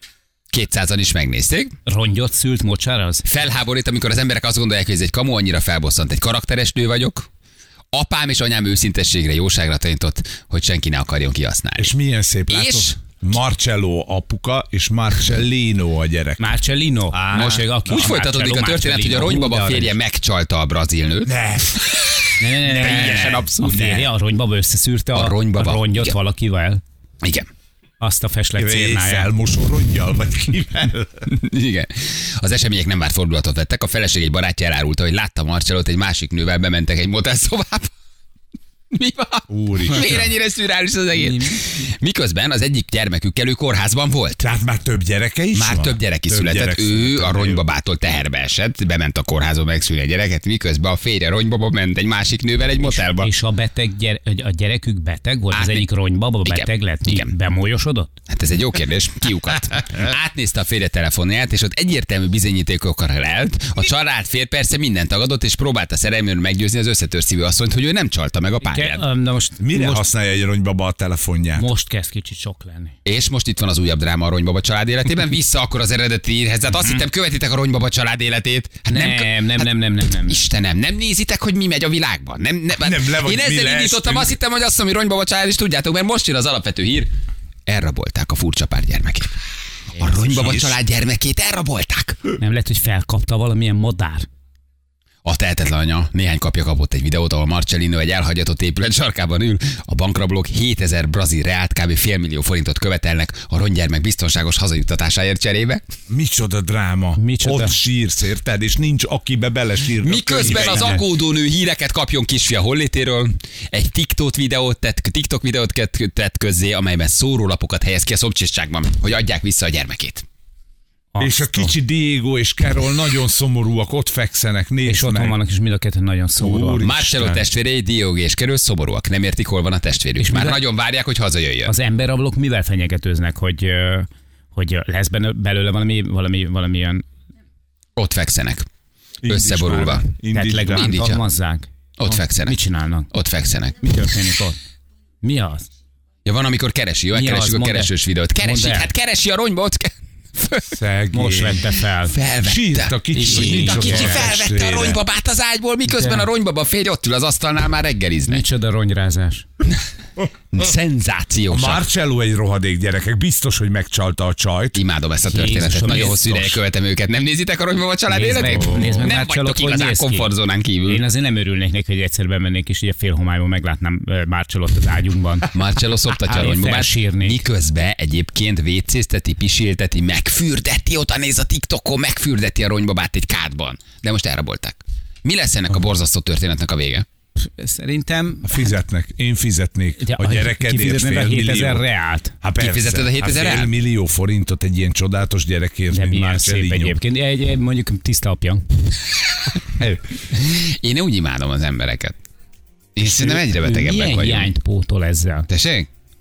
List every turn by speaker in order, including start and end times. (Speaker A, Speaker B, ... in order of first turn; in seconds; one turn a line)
Speaker A: 0.5-1.7
Speaker B: 1.9-3.2
Speaker A: 3.2-7.3
Speaker A: 7.9-11.9
Speaker C: 11.8-16.6
Speaker A: 12.5-13.0
Speaker B: 16.4-19.9
Speaker C: 17.1-18.1
Speaker A: 17.3-21.3
Speaker C: 21.2-22.1
Speaker B: 22.4-26.8
Speaker A: 22.5-24.1
Speaker A: 25.1-26.1
Speaker A: 27.2-27.5
Speaker B: 28.0-29.3
Speaker C: 28.6-31.2
Speaker A: 31.3-37.9
Speaker A: 38.9-44.5
Speaker C: 39.5-40.3
Speaker B: 41.1-41.6
Speaker C: 44.4-47.6
Speaker A: 45.5-53.3
Speaker B: 52.8-58.1
Speaker A: 55.5-55.9
Speaker A: 56.4-57.3
Speaker A: 58.3-69.0
Speaker B: 68.6-70.0
Speaker C: 69.6-71.7
Speaker B: 71.5-72.9
Speaker A: 73.0-79.7
Speaker B: 76.7-77.0
Speaker B: 78.9-80.4
Speaker A: 80.2-87.1
Speaker C: 82.8-84.4
Speaker A: 87.7-89.3
Speaker A: 90.0-92.2
Speaker C: 90.0-90.8
Speaker B: 92.3-94.3
Speaker A: 95.2-105.8
Speaker C: 106.1-111.0
Speaker B: 107.2-107.8
Speaker A: 110.0-120.2
Speaker B: 121.1-121.7
Speaker C: 121.2-125.3
Speaker B: 124.8-126.9
Speaker C: 126.4-127.4
Speaker A: 126.8-131.7
Speaker B: 130.2-130.6
Speaker B: 131.6-137.0
Speaker A: 138.0-138.7
Speaker C: 139.2-141.2
Speaker A: 139.2-140.1
Speaker B: 140.3-143.1
Speaker A: 140.7-141.1
Speaker A: 142.0-142.6
Speaker A: 143.1-143.8
Speaker B: 143.8-144.6
Speaker B: 145.2-145.7
Speaker A: 146.2-150.8
Speaker B: 147.1-148.9
Speaker C: 150.7-151.7
Speaker B: 151.1-152.1
Speaker A: 152.0-158.4
Speaker C: 152.4-155.0
Speaker B: 153.1-154.2
Speaker B: 155.9-156.3
Speaker B: 158.3-159.4
Speaker A: 160.5-161.9
Speaker C: 161.5-164.8
Speaker A: 164.7-171.0
Speaker B: 165.3-166.6
Speaker B: 168.1-170.3
Speaker B: 170.8-175.5
Speaker A: 175.5-187.1
Speaker B: 176.2-177.4
Speaker B: 187.4-188.6
Speaker C: 188.4-191.8
Speaker B: 190.0-192.3
Speaker C: 192.4-197.0
Speaker A: 192.6-193.7
Speaker B: 195.9-198.6
Speaker A: 200.3-202.1
Speaker A: 202.9-204.5
Speaker B: 203.0-205.5
Speaker A: 205.5-205.9